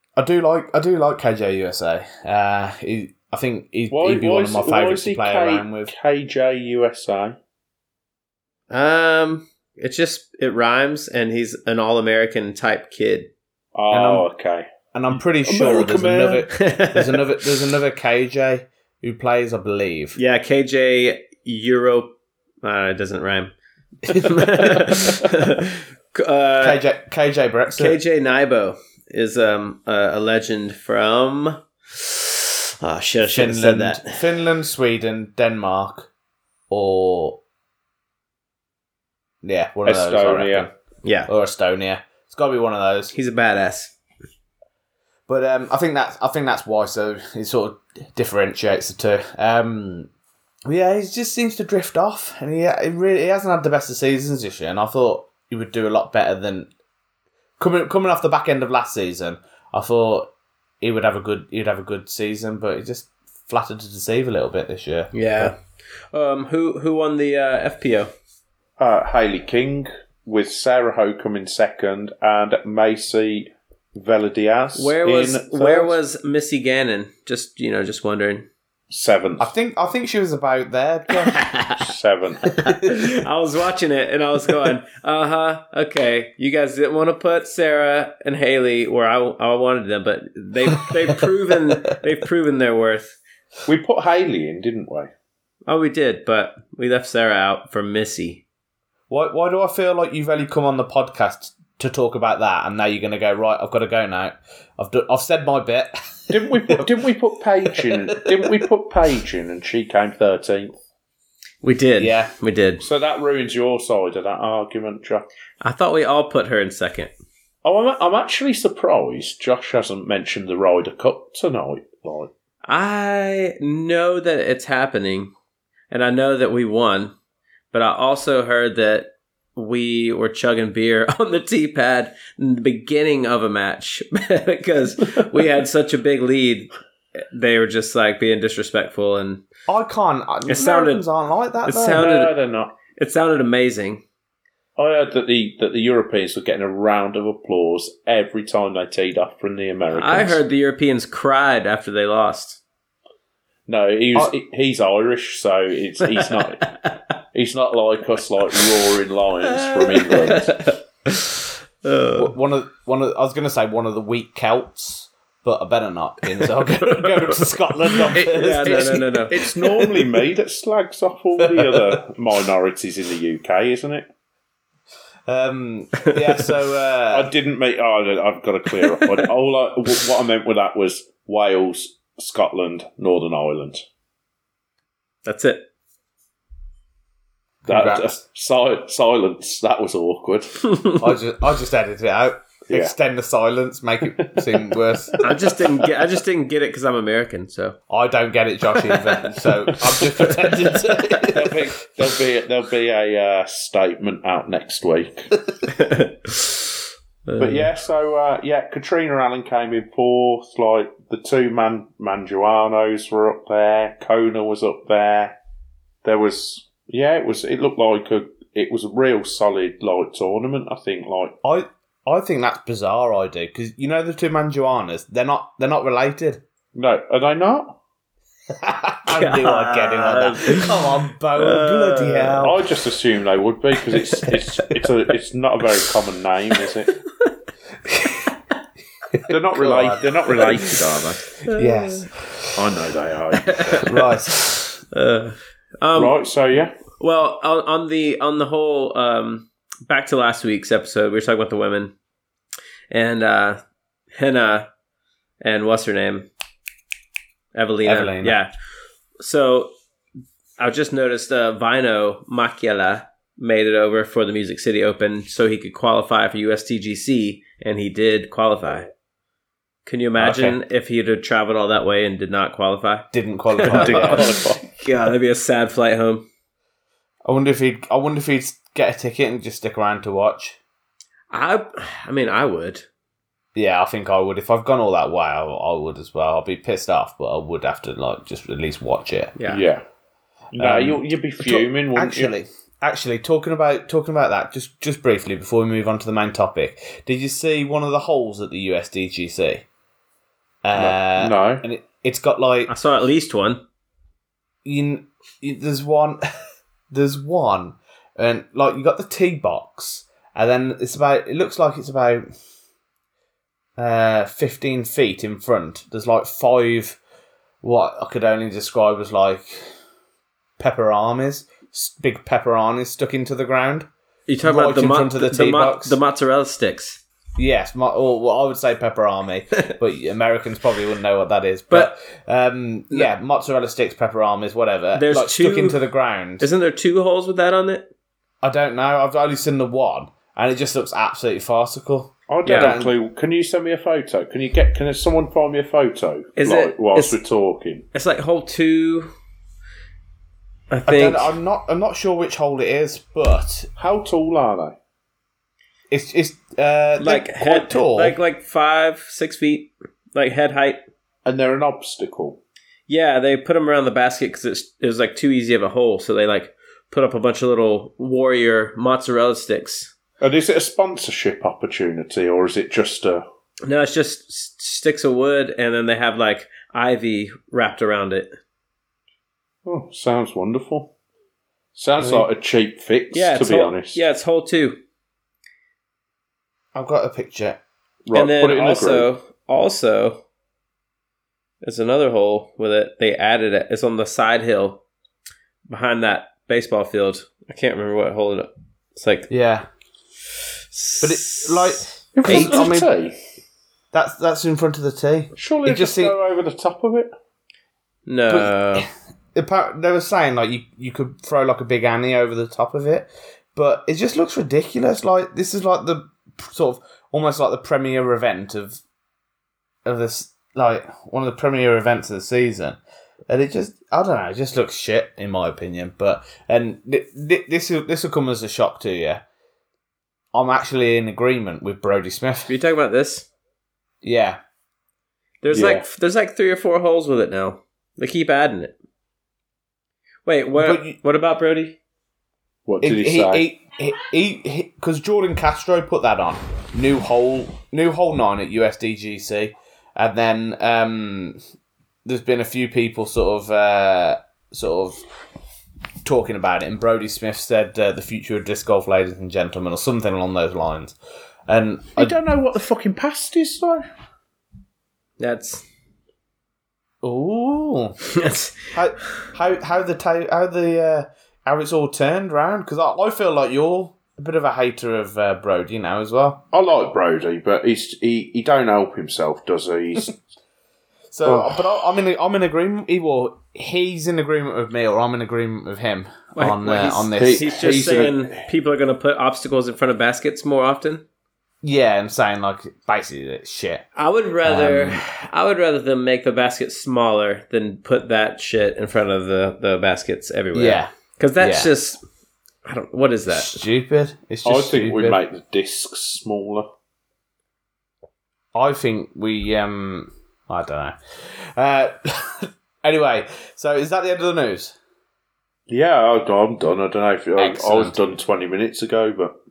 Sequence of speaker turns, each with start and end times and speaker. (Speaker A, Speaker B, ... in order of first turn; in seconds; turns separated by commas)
Speaker A: 0.1-5.9, Speaker B: 3.9-7.4, Speaker C: 8.7-13.3, Speaker B: 13.7-16.5, Speaker A: 13.9-14.2, Speaker A: 14.9-20.2, Speaker C: 16.5-17.2, Speaker C: 20.1-23.5, Speaker A: 24.1-25.2, Speaker C: 24.1-26.8, Speaker A: 26.6-28.0, Speaker C: 27.8-34.1, Speaker A: 33.2-36.1, Speaker A: 36.7-37.4, Speaker A: 39.4-40.7, Speaker B: 39.8-40.7, Speaker C: 41.0-41.3, Speaker A: 41.3-43.1, Speaker C: 43.1-43.9, Speaker A: 45.3-50.1, Speaker A: 50.6-56.7, Speaker A: 57.6-60.3, Speaker A: 60.8-65.5, Speaker C: 65.1-65.6, Speaker C: 66.1-68.1, Speaker B: 68.8-75.9, Speaker C: 74.8-78.5, Speaker B: 78.9-79.5, Speaker A: 79.4-81.5, Speaker C: 81.3-81.8, Speaker B: 81.8-82.6, Speaker C: 82.6-93.2, Speaker B: 93.7-95.1, Speaker C: 95.7-98.4, Speaker A: 99.1-106.9, Speaker B: 106.3-110.8, Speaker A: 107.8-108.5, Speaker C: 111.6-112.8, Speaker A: 112.0-112.3, Speaker B: 112.8-115.2, Speaker C: 115.6-117.1, Speaker B: 117.6-122.3, Speaker C: 122.7-125.3, Speaker C: 125.9-127.1, Speaker C: 127.7-136.7, Speaker C: 137.3-139.4, Speaker A: 139.7-142.1, Speaker C: 140.5-141.1, Speaker C: 141.6-142.3, Speaker B: 141.9-142.7, Speaker C: 142.9-144.0, Speaker B: 144.8-150.4, Speaker C: 149.9-152.6, Speaker B: 153.7-156.6, Speaker C: 156.6-156.9, Speaker B: 157.3-160.6, Speaker C: 159.5-162.3, Speaker A: 162.2-169.2, Speaker C: 168.1-169.4, Speaker B: 168.6-174.1, Speaker A: 171.4-172.0, Speaker A: 175.3-177.3, Speaker B: 177.1-183.8, Speaker C: 185.2-185.6, Speaker A: 187.7-188.1, Speaker B: 187.7-190.6, Speaker A: 191.0-195.5, Speaker B: 192.7-192.9, Speaker C: 195.2-197.8, Speaker A: 197.9-201.7, Speaker C: 198.9-201.3, Speaker B: 201.3-205.4, Speaker C: 205.7-206.7, Speaker C: 207.3-207.7, Speaker B: 207.4-215.3, Speaker B: 216.0-221.3, Speaker A: 221.4-226.4, Speaker B: 226.7-227.8, Speaker A: 228.5-232.6, Speaker C: 229.1-232.5, Speaker B: 232.4-236.9, Speaker A: 237.9-238.2, Speaker A: 239.1-240.7, Speaker B: 239.3-241.3, Speaker C: 241.4-242.1, Speaker A: 241.5-242.6, Speaker B: 242.5-243.9, Speaker C: 243.5-244.0, Speaker A: 243.8-244.6, Speaker C: 244.6-246.2, Speaker B: 245.9-246.7, Speaker C: 247.0-251.9, Speaker C: 252.9-253.6, Speaker C: 254.2-254.7, Speaker C: 255.4-256.3, Speaker C: 257.5-258.5, Speaker A: 257.8-258.4, Speaker C: 259.2-259.7, Speaker C: 260.6-268.9, Speaker C: 269.9-276.2, Speaker A: 270.2-270.6, Speaker A: 273.1-274.3, Speaker B: 273.6-274.6, Speaker A: 277.2-280.6, Speaker C: 281.3-282.9, Speaker A: 283.5-289.3, Speaker B: 289.4-289.8, Speaker B: 290.5-292.3, Speaker A: 290.6-299.6, Speaker A: 300.6-302.7, Speaker B: 300.7-301.6, Speaker C: 302.7-303.6, Speaker A: 304.6-306.2, Speaker A: 306.9-312.2, Speaker A: 313.8-317.0, Speaker A: 317.6-319.7, Speaker A: 320.6-323.9, Speaker C: 324.3-327.0, Speaker A: 324.4-326.0, Speaker A: 327.4-336.5, Speaker C: 334.9-335.8, Speaker C: 336.4-337.9, Speaker A: 338.4-342.9, Speaker B: 342.3-347.9, Speaker C: 342.4-342.7, Speaker C: 346.4-347.2, Speaker C: 347.9-349.1, Speaker C: 350.7-351.3, Speaker A: 350.9-353.7, Speaker B: 353.8-354.8, Speaker A: 355.9-358.2, Speaker C: 357.0-360.8, Speaker B: 361.2-362.4, Speaker C: 362.9-369.9, Speaker B: 370.2-373.2, Speaker C: 373.6-378.3, Speaker B: 379.6-380.9, Speaker B: 381.8-384.0, Speaker A: 382.0-382.3, Speaker C: 383.1-384.8, Speaker A: 386.7-387.6, Speaker B: 388.1-389.1, Speaker C: 388.1-390.2, Speaker C: 391.6-394.8, Speaker C: 395.7-399.3, Speaker A: 399.3-399.6, Speaker C: 400.7-402.7, Speaker A: 401.0-402.9, Speaker B: 402.1-403.1, Speaker A: 403.9-406.1, Speaker B: 405.4-407.1, Speaker C: 408.1-408.9, Speaker A: 408.3-418.8, Speaker A: 419.8-429.2, Speaker A: 430.3-432.5, Speaker C: 432.5-433.3, Speaker A: 434.0-434.4, Speaker C: 435.4-438.7, Speaker B: 435.5-435.8, Speaker C: 440.2-441.8, Speaker A: 440.6-440.9, Speaker B: 442.7-443.5, Speaker A: 442.8-451.4, Speaker A: 452.0-455.0, Speaker A: 456.0-460.9, Speaker A: 461.5-462.1, Speaker B: 462.0-463.9, Speaker C: 465.2-465.6, Speaker A: 467.0-468.0, Speaker C: 468.0-469.1, Speaker A: 468.7-476.4, Speaker B: 476.5-480.2, Speaker A: 481.1-487.9, Speaker B: 481.2-481.7, Speaker C: 486.3-491.0, Speaker B: 487.2-488.4, Speaker A: 491.6-493.8, Speaker C: 493.9-502.0, Speaker A: 494.4-495.0, Speaker A: 500.5-501.7, Speaker C: 502.6-503.6, Speaker A: 503.3-505.2, Speaker B: 504.4-506.7, Speaker A: 508.5-514.7, Speaker B: 515.7-519.3, Speaker A: 517.4-518.0